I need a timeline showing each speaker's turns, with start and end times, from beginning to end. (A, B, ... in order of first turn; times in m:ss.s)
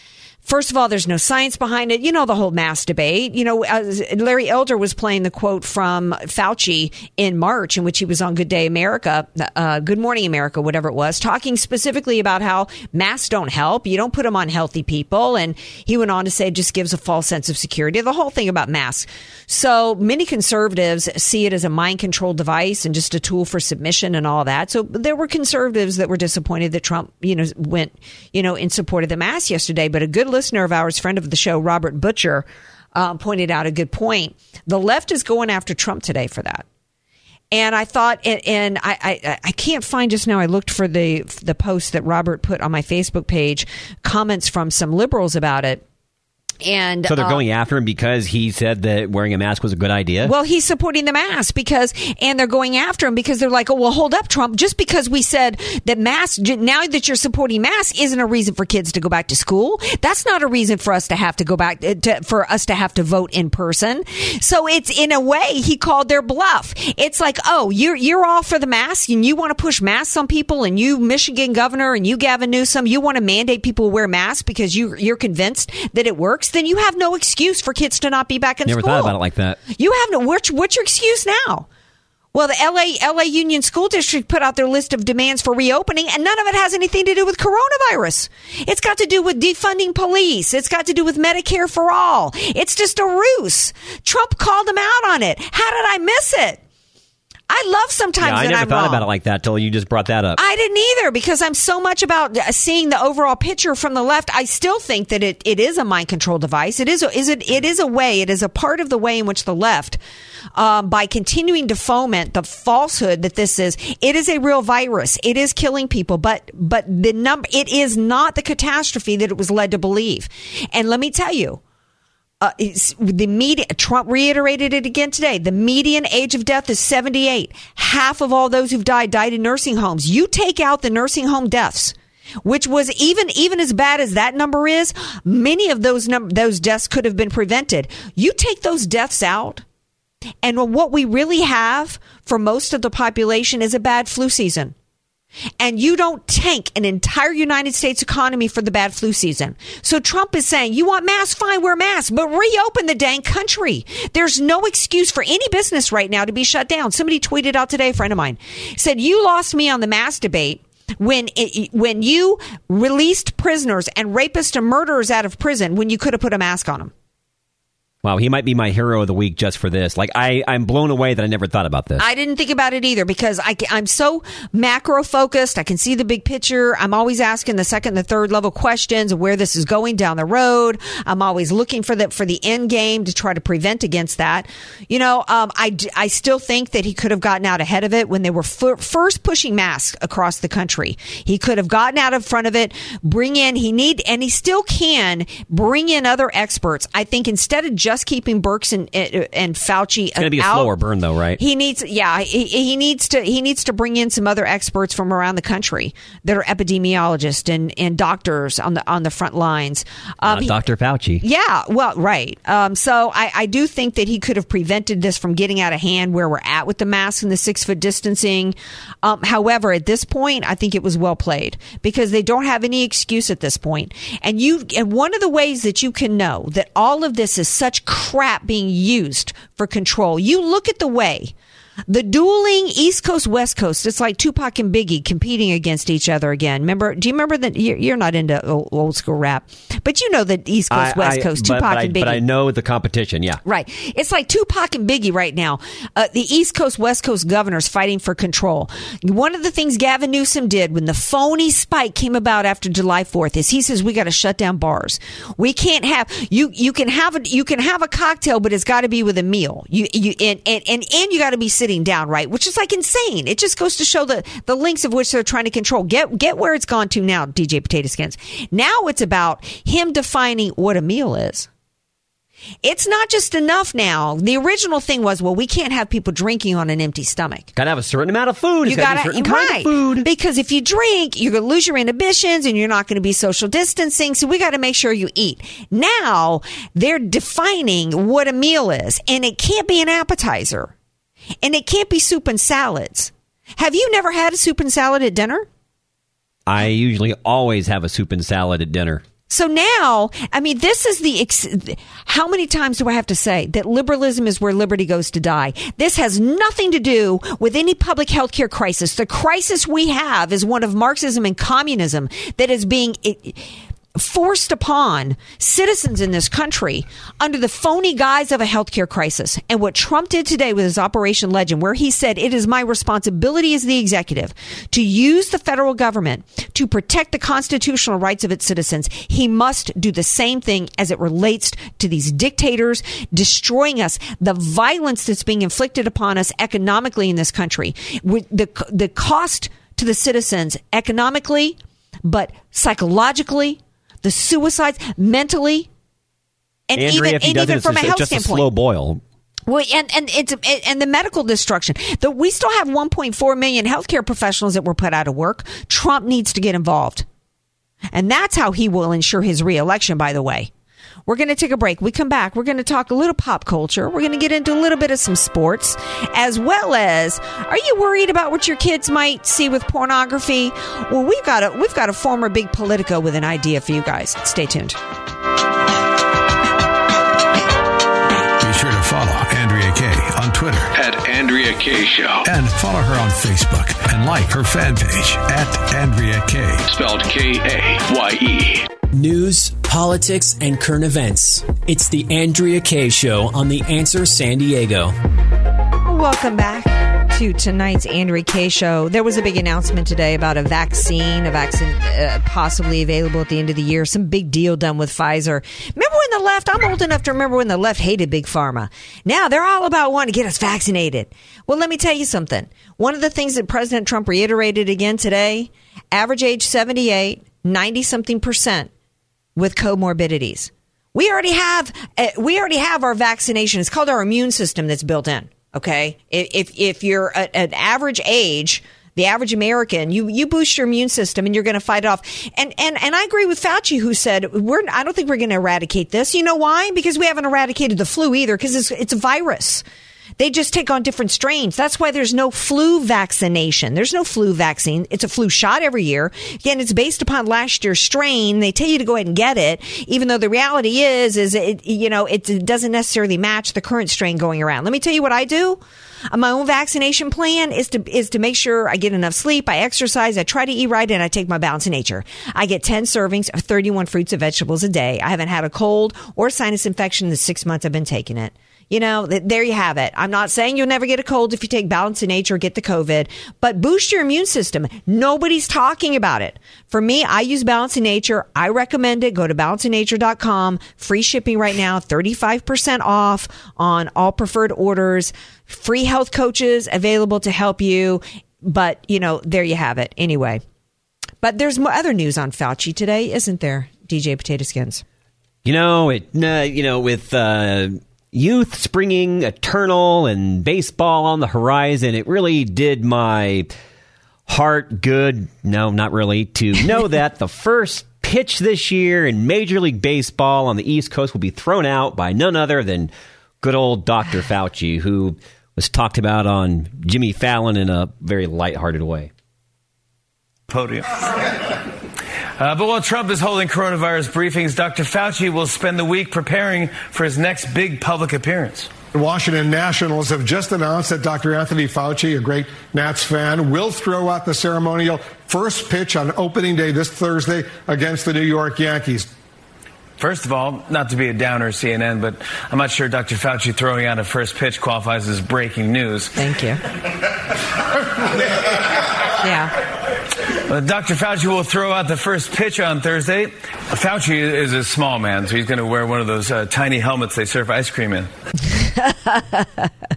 0:00.4-0:36.6 A
0:37.5-0:45.8 A
0:46.6-0:47.4 A
0:47.1-0:50.3 B
0:50.2-1:19.2 A
1:18.6-1:19.6 B
1:19.7-1:21.7 A
1:22.3-1:36.6 A
1:37.5-1:39.1 A
1:38.2-1:40.4 B
1:40.4-1:50.0 A
1:50.6-2:01.6 A
2:02.4-2:19.6 A
2:20.4-2:24.7 A
2:25.6-2:46.9 A
2:48.0-2:52.0 B
2:52.0-3:20.7 A
3:20.2-3:21.4 B
3:21.4-3:30.6 A
3:30.2-3:31.2 B
3:31.2-3:51.3 A
3:51.9-4:02.2 A
4:00.7-4:03.4 B
4:03.4-4:31.5 A
4:32.6-4:37.5 A
4:37.6-4:40.1 B
4:38.6-4:50.7 A
4:51.4-4:55.5 A
4:56.5-4:59.0 B
4:59.3-5:45.7 A
5:46.7-5:48.5 A
5:46.8-5:49.0 B
5:49.5-5:57.1 A
5:57.9-6:00.5 A
6:01.1-6:14.8 A
6:18.4-6:20.7 C
6:20.7-6:22.2 D
6:22.2-6:26.6 C
6:26.6-6:28.7 D
6:28.9-6:34.9 E
6:35.8-6:58.7 A
6:59.4-7:19.6 A
7:20.2-7:35.6 A
7:36.1-8:10.4 A
8:11.2-8:14.8 A
8:15.4-8:23.5 B
8:24.3-8:39.1 B
8:40.5-8:41.2 F
8:42.4-8:48.7 F
8:48.9-8:59.1 G
9:00.0-9:06.1 F
9:06.2-9:06.6 A
9:09.2-9:09.5 A
9:10.5-9:18.1 F
9:18.8-9:19.7 A